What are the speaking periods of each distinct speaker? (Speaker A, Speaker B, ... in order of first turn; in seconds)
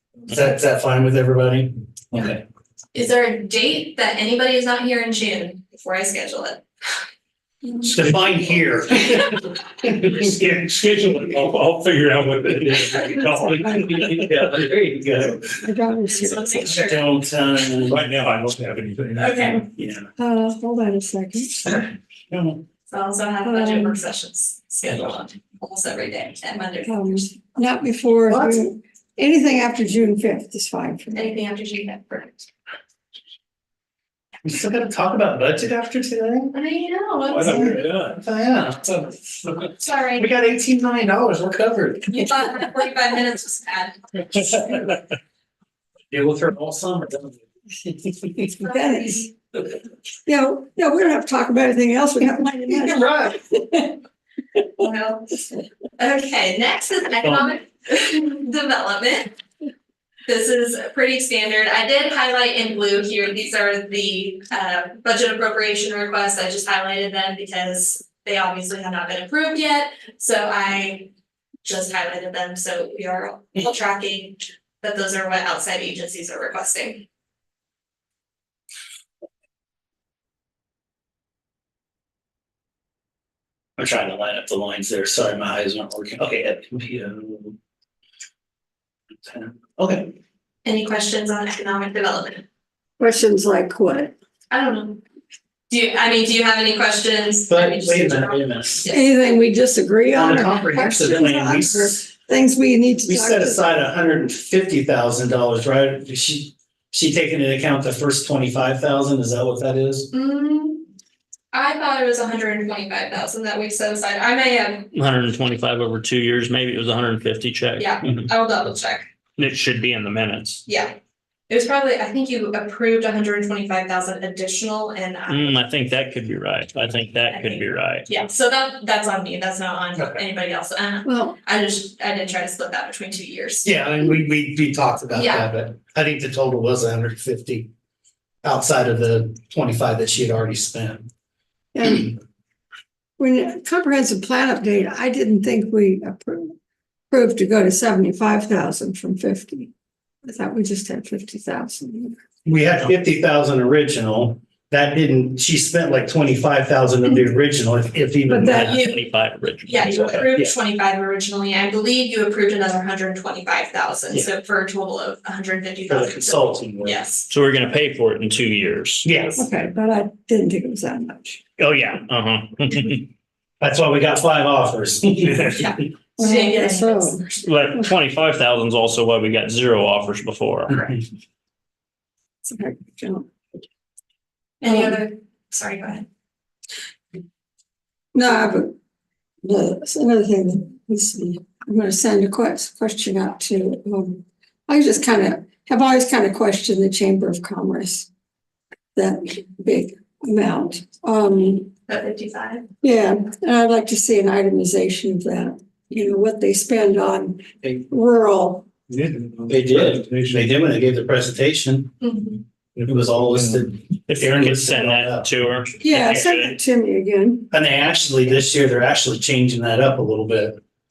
Speaker A: 0.3-2.4, 7.8-11.0, 12.6-15.6, 16.6-18.4, 19.7-20.1, 22.3-22.6, 28.3-28.7, 34.4-36.5, 37.4-42.2, 44.3-44.9, 46.1-48.5, 52.7-53.4, 57.2-57.5, 83.8-87.6, 89.2-90.1, 97.5-98.8, 100.1-102.0, 103.1-110.1, 129.9-130.2, 133.6-137.7, 138.4-141.1, 152.4-158.8, 159.9-160.5, 165.9-167.0, 169.0-169.5, 171.6-171.9, 173.6-175.8, 209.5-211.9, 212.8-215.3, 215.9-216.2, 217.5-220.6
Speaker B: 2.9-6.6, 16.1-17.1, 19.2-19.6, 22.9-27.3, 31.1-32.5, 36.5-37.8, 39.8-40.3, 42.1-44.4, 48.6-49.3, 54.8-55.4, 56.0-59.3, 60.3-71.1, 71.6-77.0, 90.6-92.4, 94.5-95.0, 95.7-99.0, 110.1-110.9, 111.5-114.9, 117.8-119.0, 120.7-121.0, 121.5-125.6, 127.3-133.7, 135.1-135.5, 159.7-167.3, 175.6-177.5, 184.6-186.1, 201.9-202.7, 212.0-212.4
Speaker C: 10.0-14.2, 17.9-19.5, 37.3-38.0, 209.7-210.4
Speaker D: 15.6-16.7, 20.2-21.8, 23.4-24.0, 26.8-31.3, 48.6-49.3, 50.2-53.9, 93.0-94.1, 98.9-103.6, 131.0-131.3, 141.7-142.2, 143.2-146.5, 147.1-149.7, 150.2-152.2, 158.3-158.9, 169.3-171.4, 176.2-177.2, 182.4-183.3, 184.7-185.0, 188.1-188.7, 189.4-198.1, 198.9-201.7, 202.8-208.7, 215.8-217.5
Speaker E: 114.9-118.0, 119.4-120.6, 125.3-128.1, 158.5-160.3, 167.3-169.1, 171.7-173.0, 177.4-180.8, 214.1-216.6